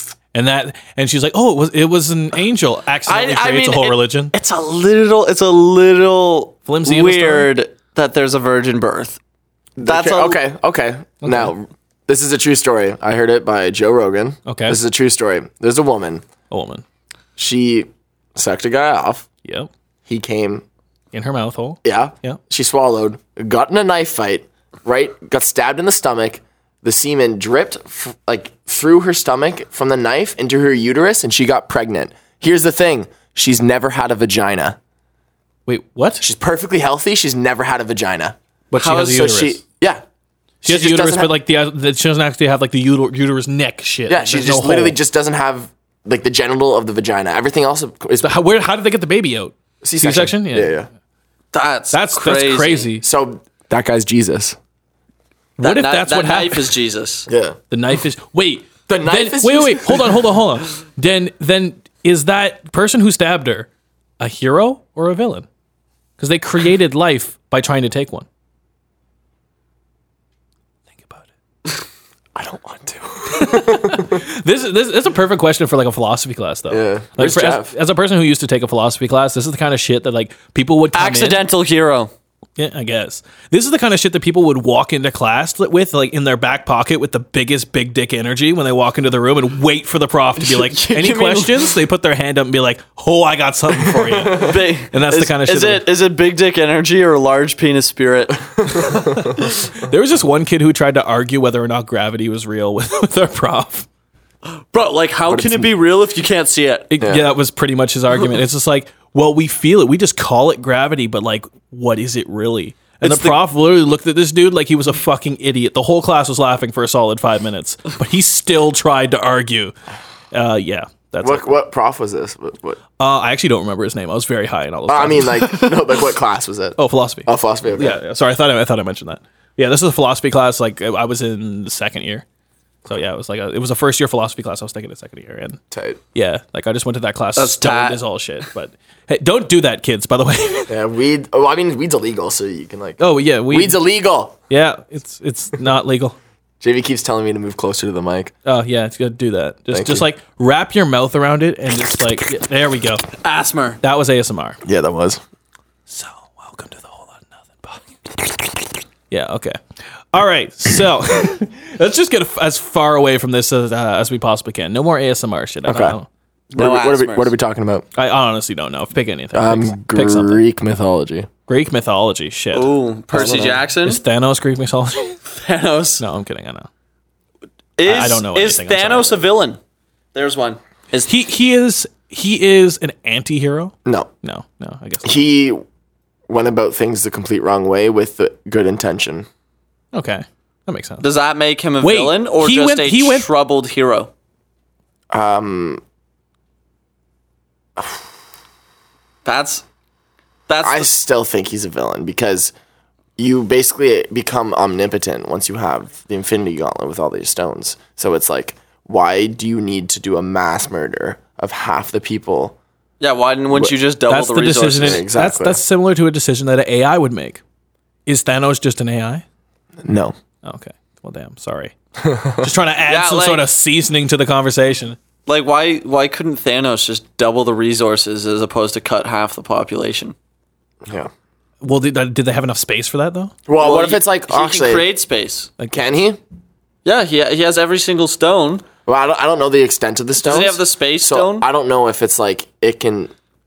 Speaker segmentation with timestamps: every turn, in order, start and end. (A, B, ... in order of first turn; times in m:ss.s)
0:00.3-0:04.3 A
0:03.1-0:09.2 B
0:06.7-0:07.5 A
0:09.8-0:16.2 C
0:09.8-0:10.4 B
0:11.2-0:11.5 A
0:14.5-0:14.8 A
0:16.5-0:16.8 A
0:17.4-0:19.3 C
0:20.1-0:20.6 C
0:21.1-0:22.4 A
0:21.8-0:34.8 C
0:35.7-0:36.2 A
0:36.2-0:38.4 C
0:38.7-0:39.6 A
0:38.8-0:39.2 B
0:38.9-0:40.0 C
0:40.6-0:45.0 A
0:40.6-0:41.3 C
0:44.1-0:48.3 C
0:48.2-0:50.8 A
0:49.8-0:50.9 C
0:51.5-0:52.9 B
0:51.9-0:53.0 A
0:53.0-0:54.6 C
0:55.6-0:56.8 A
0:55.6-0:57.3 B
0:57.3-0:57.6 C
0:57.7-1:03.7 A
0:58.9-1:00.2 C
1:04.2-1:05.5 A
1:06.2-1:08.3 A
1:11.0-1:11.2 A
1:12.4-1:14.2 C
1:13.3-1:21.4 A
1:16.7-1:17.7 C
1:20.9-1:22.1 B
1:22.6-1:35.9 A
1:30.4-1:31.8 B
1:33.8-1:34.5 C
1:34.3-1:39.3 B
1:39.8-1:43.9 A
1:44.7-1:46.9 B
1:45.3-1:45.7 C
1:46.9-1:59.7 A
1:47.0-1:47.3 C
1:53.0-1:53.4 B
2:00.3-2:01.5 A
2:01.2-2:02.8 C
2:03.0-2:05.6 A
2:04.9-2:08.0 C
2:06.8-2:12.2 A
2:12.9-2:15.6 A
2:15.7-2:16.0 C
2:16.2-2:20.8 A
2:17.4-2:18.0 B
2:20.7-2:24.4 C
2:23.0-2:23.8 A
2:24.5-2:26.2 A
2:26.6-2:28.3 C
2:28.5-2:33.0 A
2:29.7-2:30.0 C
2:33.2-2:33.8 B
2:33.8-2:34.6 A
2:34.6-2:35.2 C
2:35.9-2:38.4 A
2:39.1-2:39.6 A
2:40.1-2:46.1 A
2:45.7-2:46.0 C
2:46.5-2:47.3 B
2:46.6-2:47.8 C
2:48.0-2:50.4 A
2:49.3-2:51.3 C
2:51.5-2:52.7 A
2:52.5-2:54.0 B
2:53.1-2:53.6 C
2:53.8-2:55.2 A
2:55.3-2:56.0 B
2:56.0-2:56.7 A
2:57.8-2:59.6 B
2:57.8-2:59.2 A
3:00.1-3:01.1 B
3:01.1-3:05.2 A
3:03.8-3:04.1 C
3:05.0-3:05.6 C
3:06.3-3:09.3 C
3:09.9-3:11.0 A
3:11.0-3:14.1 B
3:11.8-3:13.3 A
3:15.1-3:15.8 C
3:17.8-3:18.0 C
3:19.2-3:19.6 B
3:20.5-3:20.9 B
3:20.6-3:22.5 C
3:23.2-3:32.6 C
3:33.0-3:35.0 B
3:34.1-3:37.4 A
3:34.8-3:35.6 C
3:38.1-3:39.2 A
3:39.8-3:40.2 C
3:40.4-3:41.7 A
3:42.0-3:42.5 C
3:42.4-3:45.0 A
3:42.9-3:43.4 B
3:45.3-3:50.2 B
3:50.8-3:51.1 C
3:51.6-3:53.4 A
3:53.5-3:54.9 C
3:53.6-3:55.5 B
3:55.7-3:56.2 C
3:56.8-3:58.6 B
3:58.9-4:03.1 C
4:00.2-4:01.5 B